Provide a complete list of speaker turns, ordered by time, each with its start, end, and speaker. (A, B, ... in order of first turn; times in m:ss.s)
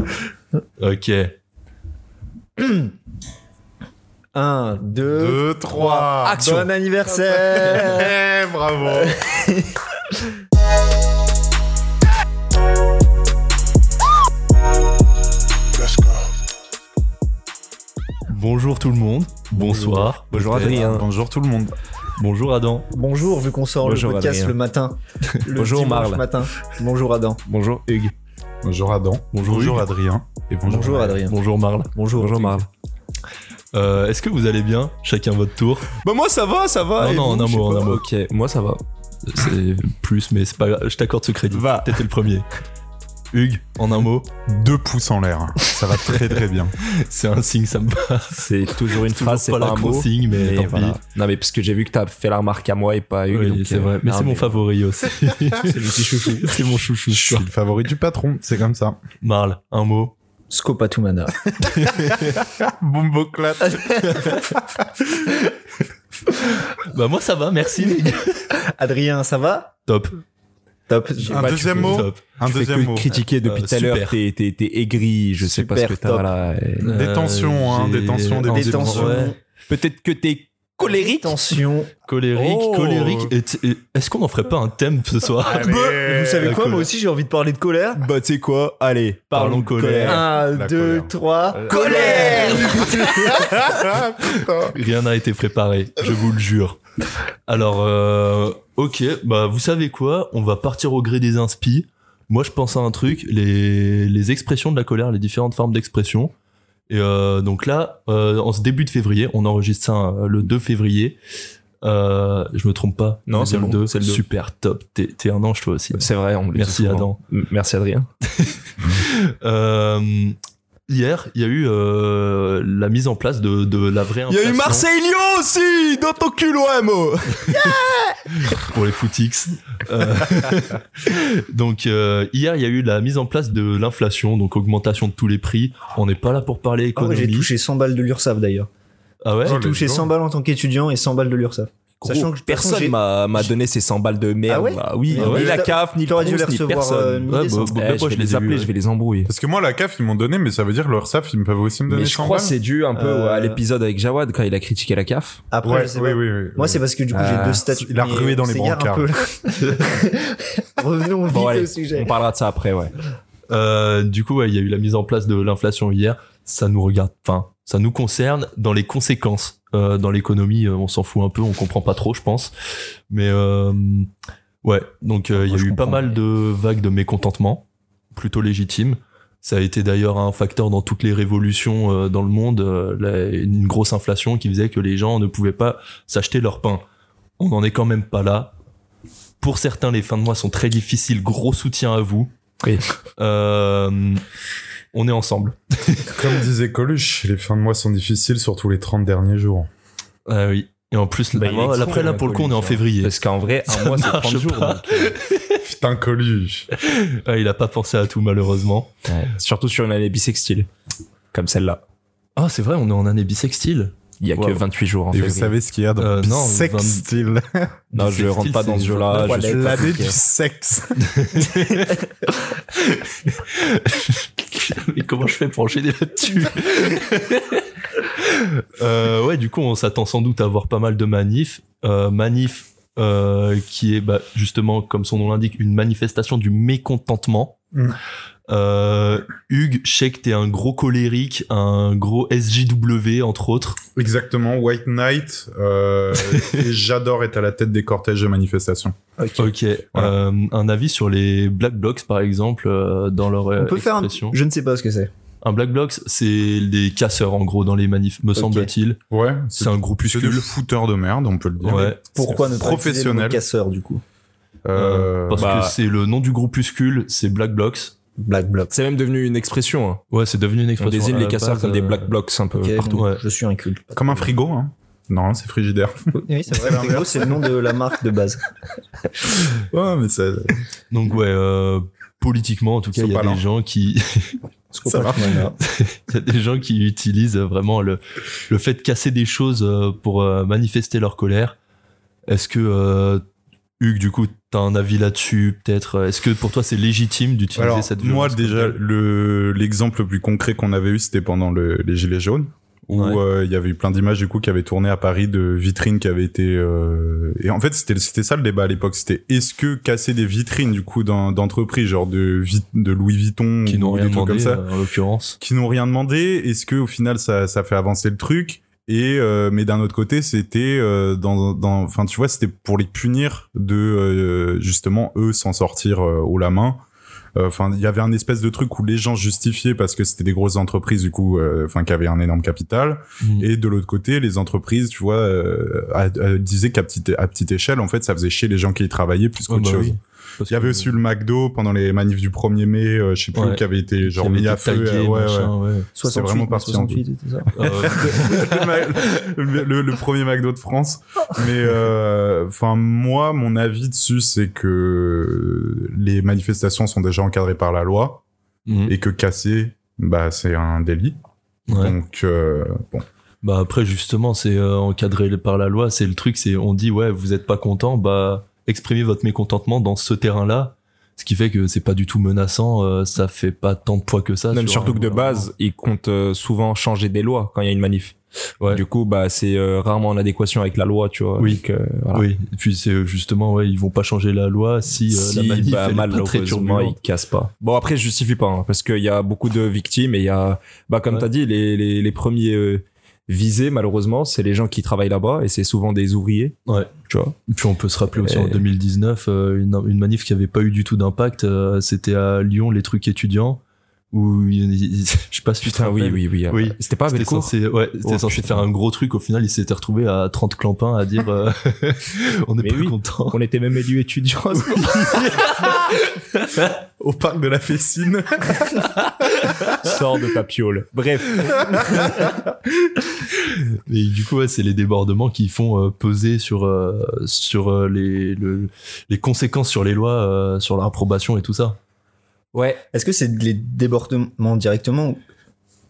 0:00.8-0:01.4 A
0:02.6-0:02.9 B
0:04.3-0:08.1 B
0:05.1-0:06.5 C
0:06.2-0:06.7 D
0:07.3-0:09.2 C
0:09.0-0:09.7 B
0:18.3-0:21.0 A
0:19.5-0:21.7 C
0:20.3-0:21.1 D
0:22.2-0:22.9 A
0:22.9-0:27.4 B
0:23.8-0:24.6 D
0:25.6-0:26.2 D
0:27.5-0:28.0 D
0:28.6-0:31.1 C
0:29.3-0:29.9 A
0:30.6-0:31.9 A
0:30.6-0:31.4 B
0:31.9-0:32.6 B
0:32.2-0:32.7 D
0:33.7-0:35.9 A
0:36.0-0:38.8 D
0:37.0-0:38.0 A
0:39.2-0:42.5 A
0:41.5-0:42.0 D
0:43.3-0:44.3 A
0:44.5-0:46.8 C
0:46.0-0:46.3 A
0:46.8-0:51.0 A
0:48.3-0:54.6 D
0:53.3-0:57.5 A
0:55.6-0:57.0 D
0:57.1-0:59.0 C
0:59.2-1:00.1 A
1:00.5-1:01.8 B
1:01.7-1:02.3 A
1:02.4-1:04.6 C
1:03.6-1:04.5 B
1:06.7-1:08.5 A
1:08.5-1:09.7 B
1:09.9-1:10.2 A
1:10.9-1:11.6 B
1:11.3-1:13.2 C
1:11.4-1:17.0 D
1:11.5-1:12.2 A
1:13.4-1:14.2 A
1:15.4-1:16.3 B
1:16.8-1:19.3 A
1:16.8-1:19.3 C
1:18.4-1:19.4 B
1:19.7-1:21.6 D
1:20.8-1:21.9 B
1:22.1-1:25.8 A
1:22.4-1:23.3 D
1:25.5-1:28.0 B
1:25.5-1:26.6 C
1:26.4-1:26.9 A
1:28.0-1:30.3 D
1:29.3-1:30.3 A
1:30.0-1:33.8 B
1:30.4-1:31.1 C
1:31.6-1:33.5 D
1:31.7-1:34.8 C
1:34.6-1:36.8 A
1:37.5-1:46.3 A
1:46.9-1:51.2 A
1:51.8-1:57.2 A
1:53.3-1:54.2 D
1:56.0-1:58.1 D
1:58.3-2:00.4 A
2:00.9-2:04.8 A
2:04.3-2:07.9 D
2:07.6-2:08.0 B
2:08.5-2:17.5 A
2:17.0-2:18.7 B
2:19.2-2:20.1 A
2:19.4-2:23.5 B
2:19.4-2:19.8 C
2:22.0-2:29.3 D
2:24.5-2:27.8 B
2:25.2-2:25.5 A
2:27.3-2:28.7 A
2:29.3-2:32.6 C
2:31.9-2:35.4 D
2:32.9-2:33.6 B
2:35.5-2:42.1 B
2:35.6-2:36.8 C
2:37.1-2:37.6 D
2:37.7-2:39.1 C
2:41.3-2:42.9 D
2:43.5-2:52.5 A
2:53.1-2:54.1 A
2:54.6-3:06.8 A
2:55.4-2:56.1 B
3:07.4-3:08.6 A
3:09.4-3:12.3 A
3:13.2-3:14.2 A
3:14.9-3:16.4 A
3:16.1-3:19.7 C
3:20.3-3:23.1 A
3:21.3-3:25.2 D
3:23.7-3:25.6 A
3:25.6-3:26.7 C
3:26.8-3:28.9 A
3:29.1-3:30.7 D
3:31.3-3:31.8 D
3:32.4-3:34.6 A
3:34.2-3:35.5 D
3:35.1-3:37.8 C
3:36.0-3:37.0 A
3:37.9-3:39.9 A
3:37.9-3:40.2 D
3:39.3-3:41.1 C
3:41.0-3:42.1 A
3:42.8-3:57.6 A
3:58.5-4:03.8 A
4:04.0-4:08.9 C
4:06.2-4:06.7 A
4:09.2-4:09.5 B
4:09.4-4:14.4 A
4:13.6-4:15.1 B
4:15.4-4:19.0 A
4:18.4-4:18.7 B
4:19.1-4:23.4 C
4:19.6-4:20.5 A
4:21.6-4:22.0 A
4:22.0-4:24.0 B
4:24.6-4:25.5 C
4:24.8-4:27.9 A
4:25.4-4:25.8 D
4:28.2-4:28.7 B
4:28.7-4:30.0 D
4:30.1-4:32.1 A
4:30.8-4:33.0 D
4:32.6-4:34.3 B
4:32.9-4:33.2 A
4:33.9-4:37.5 C
4:36.2-4:38.4 B
4:39.6-4:40.6 C
4:40.9-4:44.4 A
4:43.0-4:43.4 C
4:44.7-4:45.6 B
4:44.9-4:45.3 C
4:45.6-4:51.6 A
4:52.3-4:53.2 A
4:53.8-4:58.8 A
4:57.6-5:14.7 C
5:02.9-5:03.2 A
5:13.7-5:15.4 A
5:15.4-5:26.8 C
5:27.4-5:45.5 C
5:33.2-5:33.5 A
5:39.5-5:40.9 A
5:43.4-5:45.9 A
5:46.0-5:47.6 B
5:46.0-5:47.0 C
5:47.6-5:48.6 A
5:47.6-5:58.2 C
5:58.7-5:59.0 A
5:58.9-6:01.2 C
6:01.7-6:02.0 A
6:01.7-6:03.0 C
6:03.4-6:15.5 A
6:14.5-6:18.2 D
6:18.7-6:22.3 D
6:22.1-6:27.0 A
6:25.1-6:37.4 D
6:37.5-6:43.6 A
6:38.1-6:38.6 D
6:44.1-6:53.4 A
6:45.6-6:47.5 D
6:48.0-6:48.7 D
6:52.6-6:55.7 D
6:54.5-6:56.8 A
6:57.0-6:59.0 C
6:59.7-7:02.1 D
7:01.7-7:02.4 C
7:03.3-7:11.8 A
7:12.5-7:12.8 D
7:12.9-7:15.2 B